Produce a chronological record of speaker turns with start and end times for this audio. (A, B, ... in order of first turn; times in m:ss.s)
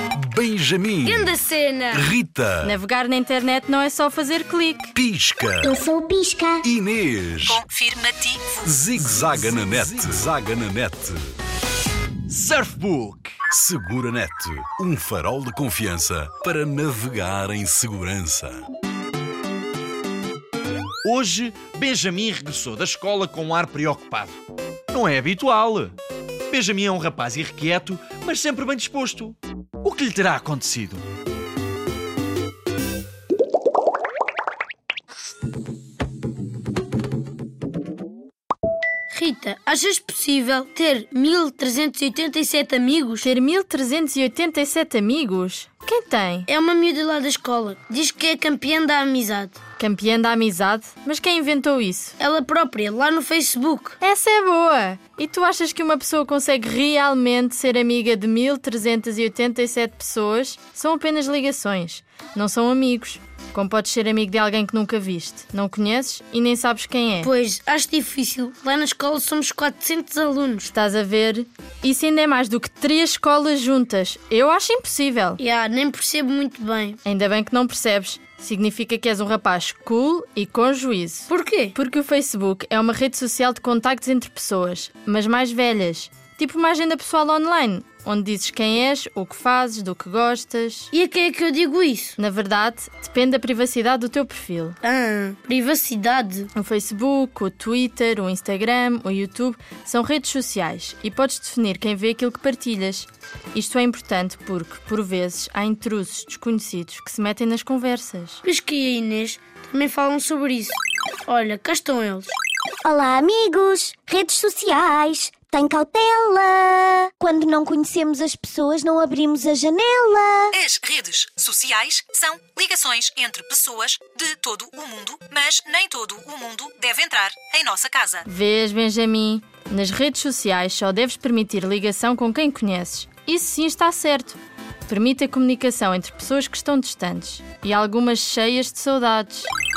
0:00.2-0:01.3 A
0:01.0-0:02.1 B
0:01.9-0:02.7 A
0:02.6-0:04.9 C
0:04.9-0:05.8 A
0:05.6-0:06.6 D
0:06.6-0:07.6 A
0:07.4-0:08.6 E
0:08.6-0:11.2 A
0:12.3-0:13.4 F
0:13.5-0:18.6 A
0:21.0-0:24.4 F
0:24.9-0:26.0 F
0:26.5-0:31.0 F
0:39.1-0:43.3 B
0:43.2-0:46.5 C
0:46.5-0:49.6 B
0:49.8-0:52.2 C
0:52.2-0:54.0 B
0:54.0-1:07.3 C
1:07.2-1:10.7 B
1:10.7-1:15.4 C
1:15.4-1:17.0 B
1:17.0-1:30.9 C
1:21.3-1:21.7 B
1:30.9-1:32.2 B
1:32.2-1:34.8 C
1:34.8-1:36.5 B
1:36.5-1:48.4 C
1:48.4-1:52.3 B
1:52.8-2:00.5 D
2:00.5-2:08.2 E
2:08.2-2:19.5 C